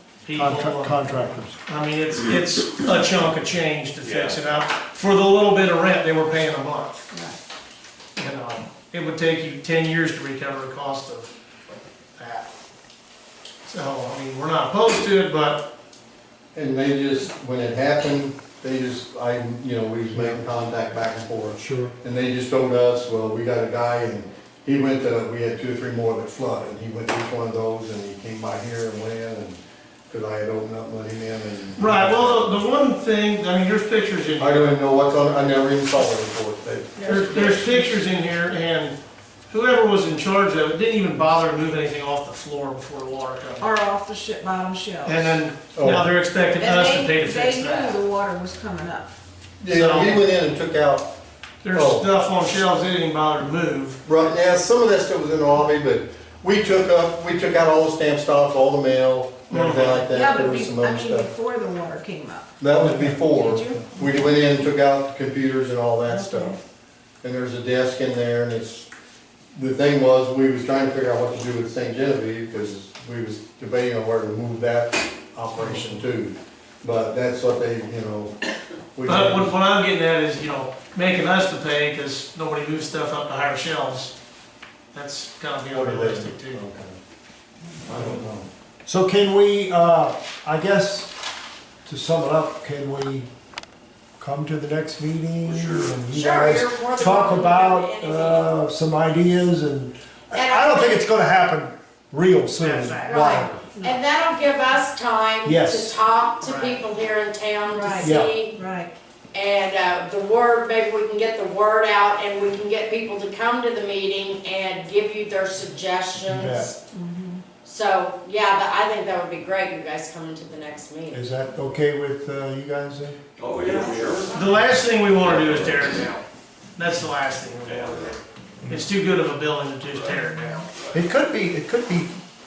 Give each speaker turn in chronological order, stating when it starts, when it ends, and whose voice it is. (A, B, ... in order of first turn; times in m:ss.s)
0:00.2-0:01.0 A
0:00.3-0:01.6 B
0:01.6-0:07.1 A
0:04.0-0:04.4 C
0:07.1-0:07.4 D
0:08.2-0:12.5 A
0:13.6-0:15.7 A
0:16.5-0:32.5 E
0:20.1-0:20.4 B
0:21.5-0:21.9 B
0:31.8-0:34.8 A
0:34.4-0:37.5 E
0:37.0-0:38.0 D
0:37.0-0:43.6 A
0:43.6-0:45.4 D
0:45.0-0:48.0 A
0:45.7-0:46.1 E
0:46.6-0:49.1 D
0:49.6-0:51.1 E
0:49.7-0:50.2 A
0:51.6-0:54.0 A
0:51.7-0:52.1 E
0:54.0-1:01.3 E
0:59.5-1:00.1 A
1:00.1-1:04.4 D
1:02.6-1:06.6 E
1:02.8-1:03.1 B
1:06.0-1:06.6 D
1:07.2-1:08.9 E
1:09.5-1:18.3 E
1:18.9-1:19.5 E
1:19.0-1:24.1 A
1:24.9-1:26.6 A
1:25.7-1:27.0 E
1:27.8-1:28.5 E
1:28.8-1:31.1 B
1:31.8-1:33.3 B
1:34.2-1:43.6 B
1:35.4-1:36.0 C
1:36.1-1:38.5 F
1:40.3-1:41.0 F
1:42.6-1:43.4 A
1:43.0-1:48.6 F
1:43.7-1:44.0 D
1:45.4-1:45.9 B
1:46.4-1:46.8 A
1:47.7-1:48.9 D
1:48.0-1:48.4 B
1:49.3-1:56.8 F
1:56.2-1:56.7 B
1:56.9-1:57.4 D
1:57.6-2:01.3 F
2:01.1-2:03.2 B
2:03.4-2:04.3 C
2:03.7-2:04.2 F
2:04.3-2:06.2 A
2:05.3-2:06.2 C
2:06.8-2:10.7 A
2:07.7-2:08.0 C
2:10.9-2:12.2 B